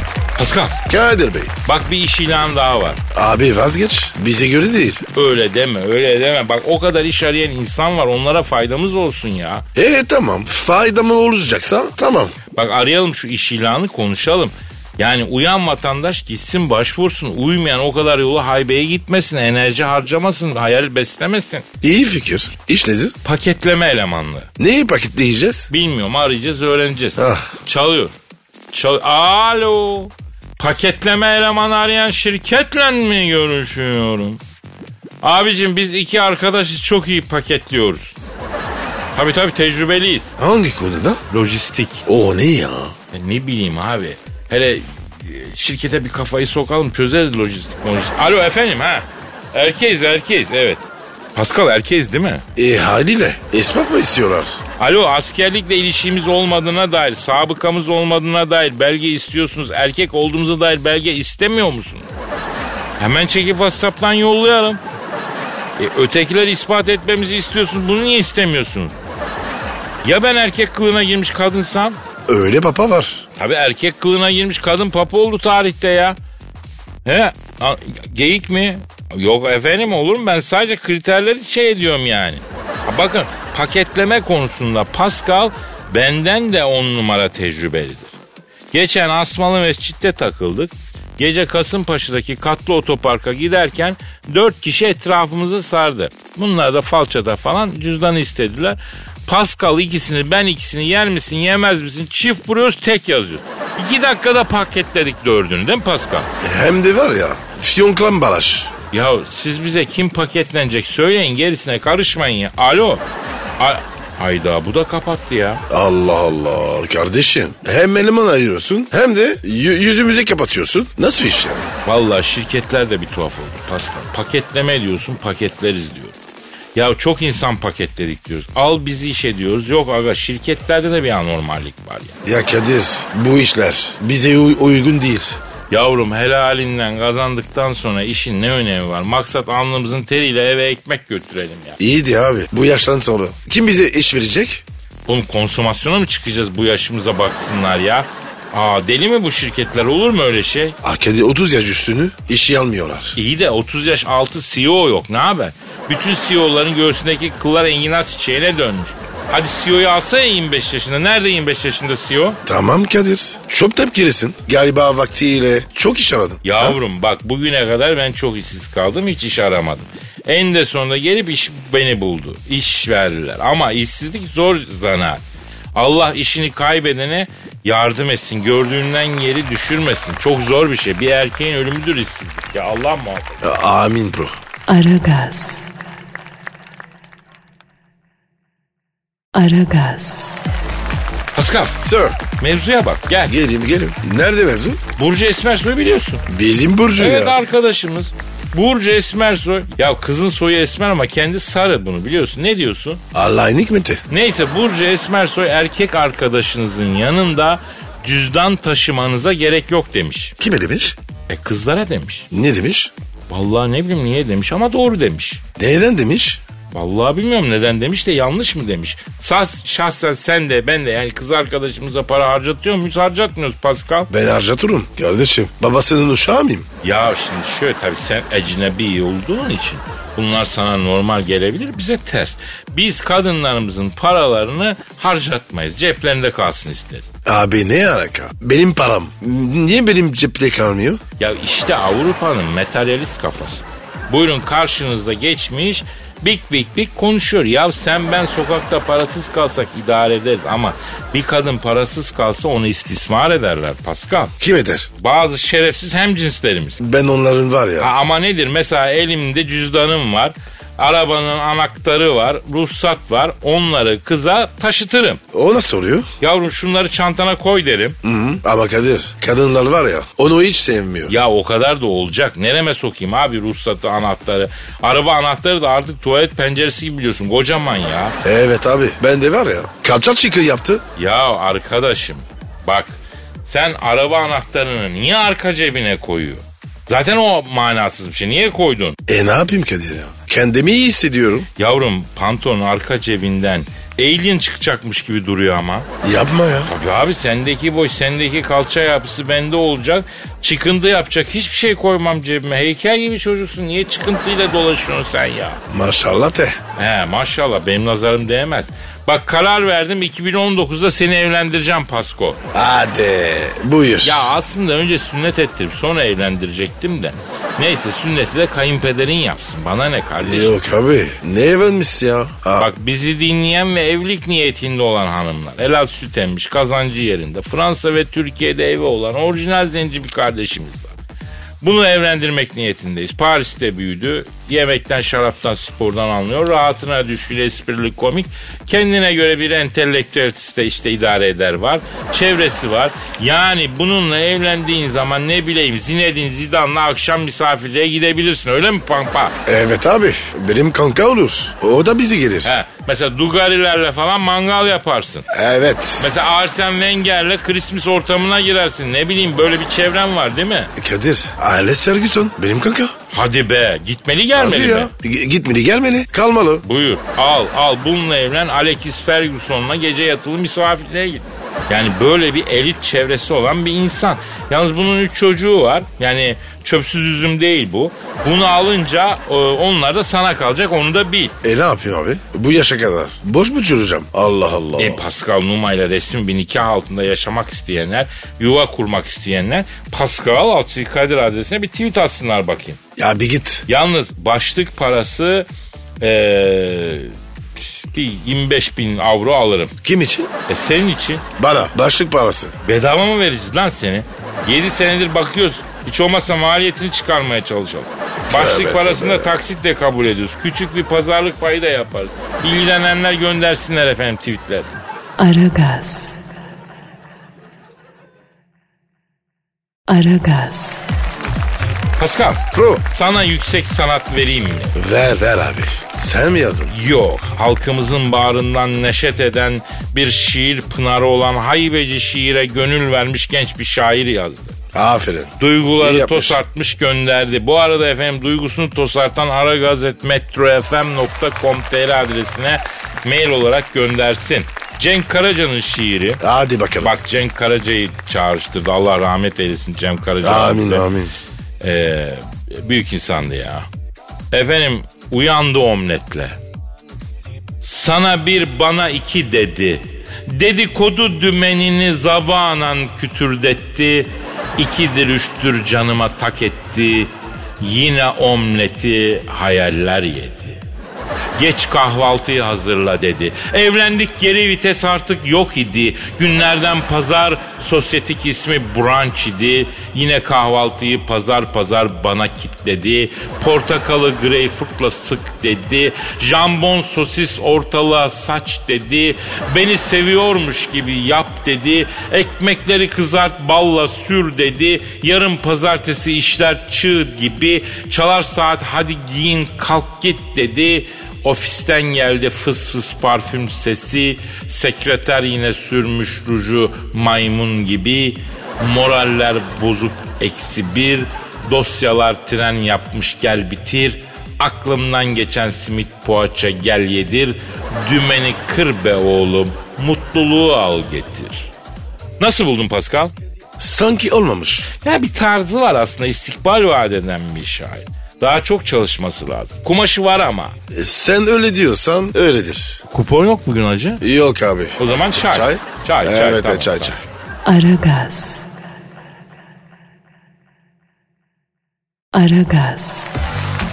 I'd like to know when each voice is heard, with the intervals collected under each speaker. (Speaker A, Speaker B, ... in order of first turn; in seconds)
Speaker A: 0.4-0.8, 1.6-3.0, 5.1-9.6, 12.5-21.6, 23.2-24.5, 25.7-28.2, 28.7-34.4, 35.2-38.1, 39.1-40.4, 41.3-42.0, 43.1-50.8, 51.3-52.4, 54.8-62.1, 63.0-64.8, 65.8-68.9, 70.0-72.0, 73.3-76.2, 77.0-88.1, 88.7-106.3, 108.9-113.0, 113.6-115.6, 121.8-126.2, 126.8-132.2, 135.7-141.8, 145.1-150.8, 153.2-162.4, 166.4-175.2, 175.7-183.4, 191.3-191.8, 192.3-193.3, 195.0-196.2, 197.0-203.0, 204.1-210.3, 211.3-212.3, 213.3-215.4, 216.7-224.1, 226.8-237.1, 241.2-254.3, 255.0-256.8, 257.8-265.2, 266.2-268.0, 271.1-278.2, 280.9-288.9, 291.6-295.9, 296.6-305.6, 306.8-312.4, 314.0-320.6, 322.6-330.9, 331.6-349.3, 352.4-355.2, 356.0-360.7, 363.1-364.9, 366.6-381.3, 384.8-392.8, 393.7-395.5, 396.0-399.7, 400.5-401.2, 402.6-414.7, 422.0-424.7, 426.7-434.6, 435.4-446.2, 446.8-450.9, 451.6-453.6, 454.3-456.4, 457.6-470.6, 471.4-521.5, 522.2-523.1, 524.8-530.5, 532.9-534.0, 534.8-536.9
Speaker B: 0.9-1.5, 3.1-5.0, 9.7-12.4, 21.8-23.1, 24.6-25.7, 27.2-27.5, 40.4-41.2, 42.0-42.9, 52.5-54.6, 72.3-73.2, 106.4-108.7, 115.7-121.7, 132.2-135.4, 141.8-144.6, 150.8-153.2, 162.4-166.8, 183.4-184.3, 191.8-192.2, 193.2-194.8, 196.3-197.3, 203.1-204.0, 210.4-211.0, 212.3-212.9, 215.6-216.4, 224.1-226.7, 237.2-241.0, 254.4-254.9, 256.8-257.9, 265.3-266.1, 268.0-271.1, 278.2-280.8, 289.1-291.5, 296.0-296.7, 305.7-306.6, 312.5-314.3, 320.2-322.7, 349.4-352.6, 355.3-356.1, 360.8-362.9, 364.4-366.6, 381.4-385.0, 393.0-393.6, 399.8-400.3, 401.4-402.6, 408.3-409.3, 422.5-422.8, 424.7-426.7, 434.7-436.4, 446.2-446.9, 450.2-451.1, 523.6-524.7, 530.7-532.8, 534.0-537.0
Speaker C: 184.7-185.7, 189.3-190.3, 415.2-416.2, 419.9-420.9, 537.4-538.5, 542.1-543.1